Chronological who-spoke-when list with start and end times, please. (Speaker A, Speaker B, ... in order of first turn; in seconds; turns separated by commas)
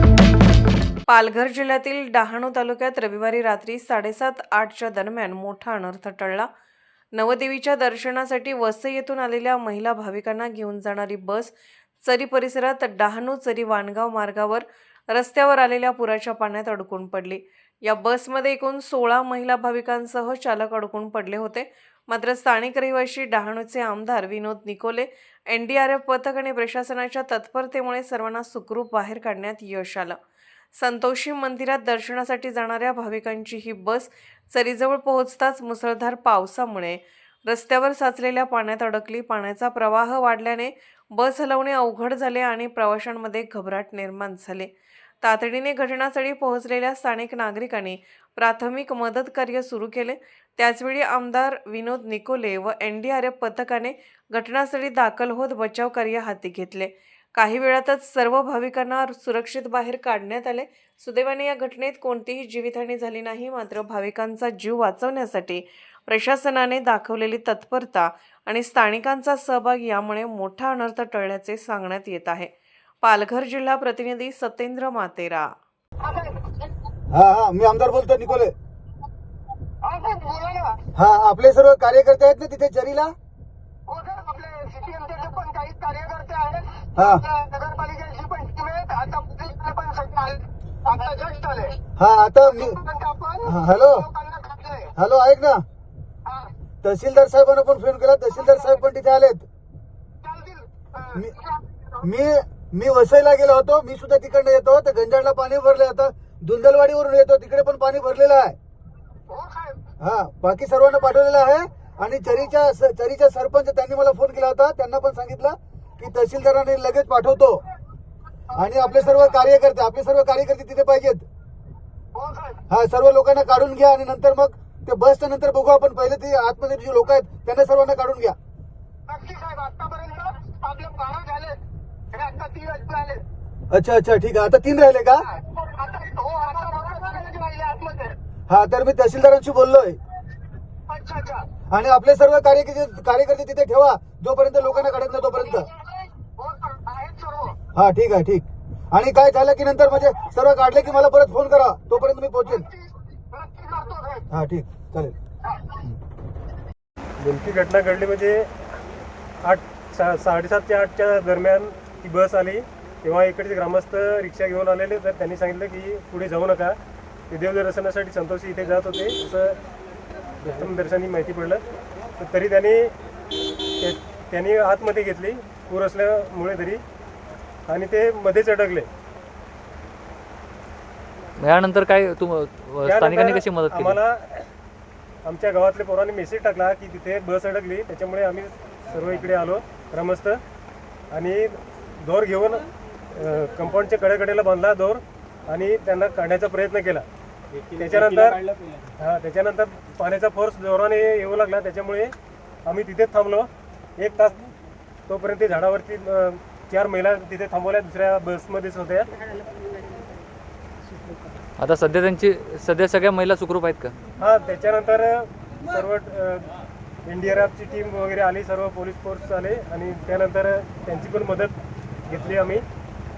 Speaker A: 1.1-6.5, Speaker A: 7.2-30.2, Speaker A: 30.8-44.7, Speaker A: 45.2-75.5, Speaker B: 76.0-76.4, Speaker C: 77.1-78.5, Speaker B: 79.8-80.8, Speaker C: 81.0-83.1, Speaker B: 83.9-91.8, Speaker C: 87.0-87.2, Speaker C: 92.0-92.8, Speaker B: 92.7-93.5, Speaker C: 93.5-94.1, Speaker B: 94.1-94.9, Speaker C: 95.0-95.6, Speaker C: 96.8-99.5, Speaker B: 100.2-101.1, Speaker C: 102.0-108.6, Speaker B: 109.3-109.8, Speaker C: 110.0-117.6, Speaker C: 118.5-121.3, Speaker B: 122.2-122.6, Speaker C: 122.7-128.4, Speaker B: 129.1-131.6, Speaker B: 132.1-133.2, Speaker C: 133.7-135.3, Speaker B: 135.5-138.2, Speaker C: 138.5-140.0, Speaker B: 140.9-141.5, Speaker C: 141.7-145.7, Speaker B: 146.4-147.6, Speaker C: 147.8-152.7, Speaker B: 153.3-154.2, Speaker C: 154.3-155.2, Speaker D: 157.2-158.5, Speaker D: 159.4-166.8, Speaker D: 167.3-169.6, Speaker D: 170.4-171.6, Speaker D: 172.2-172.9, Speaker D: 173.8-176.8, Speaker D: 177.7-178.9, Speaker E: 181.4-184.0, Speaker D: 182.9-184.5, Speaker D: 185.2-190.4, Speaker D: 191.1-197.1, Speaker D: 197.7-202.1, Speaker D: 202.7-204.4, Speaker D: 205.1-209.1, Speaker E: 211.6-213.9, Speaker D: 214.2-216.5, Speaker D: 217.1-221.6, Speaker D: 222.1-222.7